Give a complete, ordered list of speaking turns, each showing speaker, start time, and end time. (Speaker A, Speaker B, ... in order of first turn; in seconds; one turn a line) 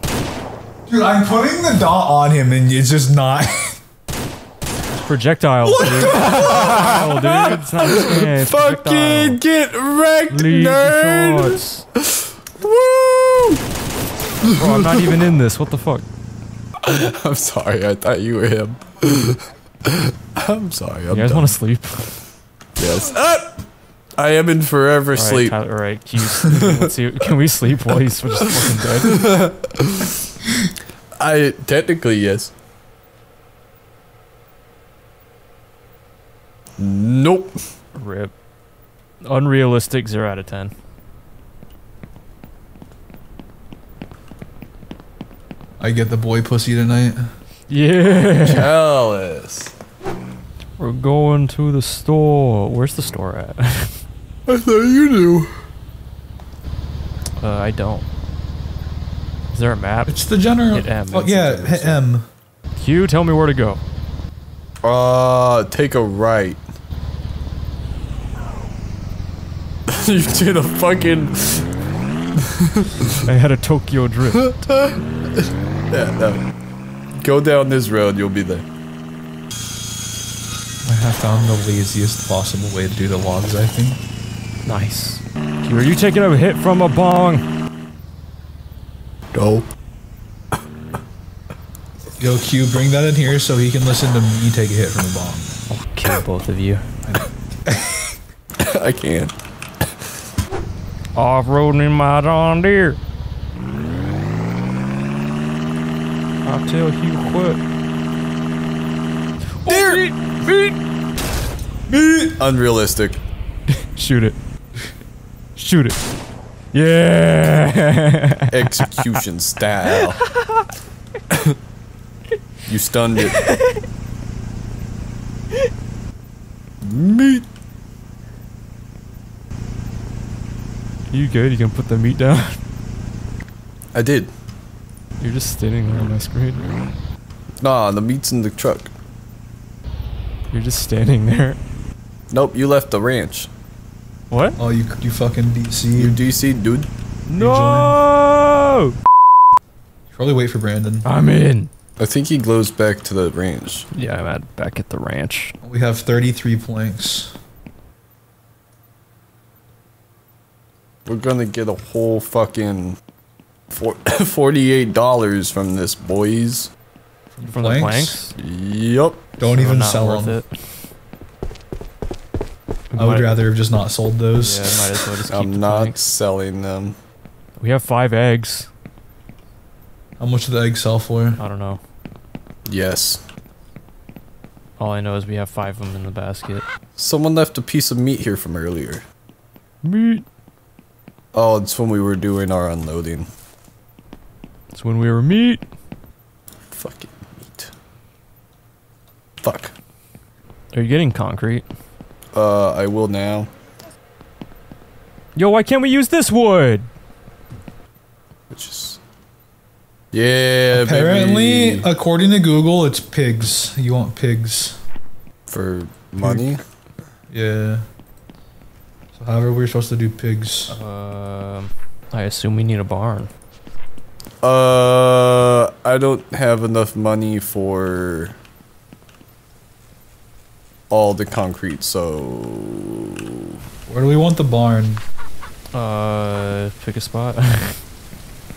Speaker A: 0.9-3.8
Speaker B: 4.9-9.4
Speaker A: 5.7-7.0
Speaker C: 5.8-11.6
Speaker B: 10.3-11.8
Speaker C: 12.1-13.6
Speaker B: 14.4-16.1
Speaker C: 14.5-15.1
Speaker C: 16.8-21.6
Speaker B: 21.1-22.2
Speaker C: 22.8-23.6
Speaker C: 24.2-25.6
Speaker B: 25.1-29.3
Speaker C: 26.4-26.9
Speaker C: 28.2-30.1
Speaker C: 31.2-32.5
Speaker C: 36.8-37.5
Speaker B: 37.9-38.3
Speaker B: 39.2-40.7
Speaker A: 45.8-47.2
Speaker B: 47.7-48.7
Speaker C: 48.4-49.7
Speaker B: 50.8-54.0
Speaker C: 54.5-55.5
Speaker B: 57.4-58.0
Speaker B: 59.5-62.0
Speaker A: 60.1-62.3
Speaker B: 62.8-63.8
Speaker C: 64.8-66.6
Speaker C: 69.9-71.7
Speaker C: 72.4-73.3
Speaker B: 73.2-74.5
Speaker C: 74.3-76.4
Speaker C: 77.2-78.6
Speaker A: 80.8-84.0
Speaker B: 84.7-87.4
Speaker C: 89.3-89.7
Speaker A: 92.2-95.5
Speaker B: 95.7-96.8
Speaker A: 97.0-98.1
Speaker C: 98.6-99.3
Speaker B: 101.1-103.0
Speaker B: 106.4-107.6
Speaker B: 109.6-110.8
Speaker C: 109.7-110.0
Speaker A: 111.9-112.4
Speaker C: 112.4-113.2
Speaker B: 113.7-114.4
Speaker B: 115.5-116.0
Speaker B: 116.7-119.1
Speaker C: 118.5-120.2
Speaker B: 119.9-120.6
Speaker C: 122.7-123.4
Speaker B: 123.2-123.8
Speaker C: 126.8-127.4
Speaker B: 131.1-132.6
Speaker C: 133.9-134.3
Speaker B: 135.2-136.7
Speaker C: 137.6-138.9
Speaker B: 140.5-141.6
Speaker C: 142.3-143.5
Speaker B: 144.3-144.6
Speaker A: 144.6-146.2
Speaker C: 145.9-146.9
Speaker B: 147.3-148.9
Speaker A: 147.3-148.0
Speaker A: 150.1-151.1
Speaker B: 151.0-151.7
Speaker C: 152.0-153.9
Speaker B: 153.9-155.5
Speaker A: 155.6-157.3
Speaker C: 161.1-163.0
Speaker C: 163.7-166.7
Speaker A: 167.3-168.2
Speaker B: 167.4-168.3
Speaker C: 168.3-169.2
Speaker A: 169.4-170.4
Speaker B: 169.4-170.5
Speaker B: 172.9-173.4
Speaker A: 172.9-174.8
Speaker B: 174.3-176.0
Speaker C: 175.3-176.9
Speaker B: 177.6-178.7
Speaker A: 180.2-181.4
Speaker B: 181.4-181.8
Speaker C: 182.7-183.2
Speaker B: 184.8-186.6
Speaker C: 187.0-189.0
Speaker B: 189.8-190.2
Speaker C: 191.3-193.3
Speaker B: 194.7-195.6
Speaker C: 196.7-197.7
Speaker C: 199.4-199.7
Speaker B: 200.7-201.7
Speaker C: 202.3-203.5
Speaker B: 205.3-206.9
Speaker C: 208.5-209.0
Speaker C: 210.1-211.9
Speaker A: 210.7-214.8
Speaker C: 215.5-216.6
Speaker A: 216.2-216.6
Speaker A: 217.3-217.8
Speaker A: 219.1-220.8
Speaker B: 220.7-223.3
Speaker C: 224.4-228.3
Speaker C: 230.9-233.1
Speaker A: 233.9-235.0
Speaker B: 235.7-237.8